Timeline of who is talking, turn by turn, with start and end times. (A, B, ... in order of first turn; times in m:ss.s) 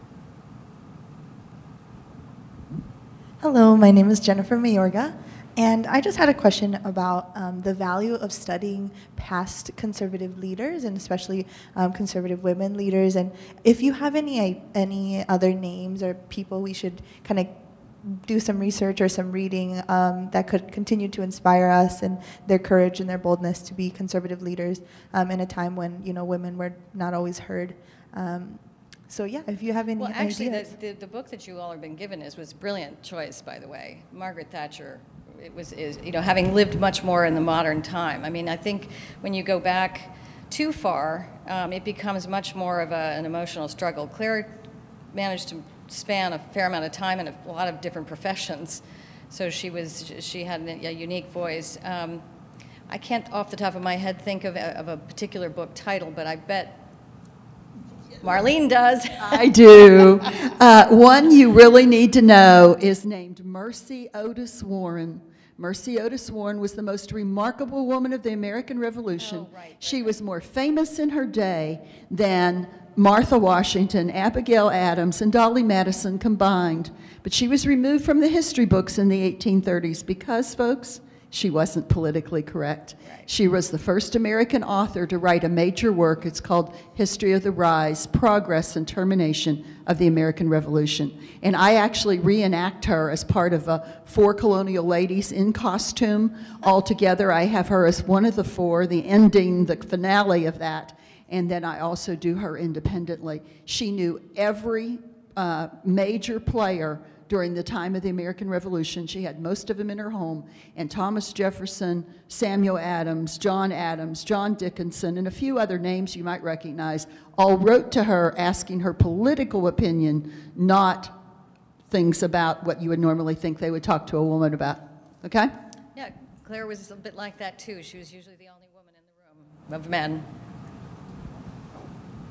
0:03.4-0:30.7 A
0:30.0-0:44.5 B
0:45.1-0:52.2 B
0:52.9-0:56.8 B
0:58.2-0:59.4 B
0:59.2-2:01.1 C
1:09.2-1:10.2 B
2:01.9-2:05.5 C
2:05.9-2:10.2 B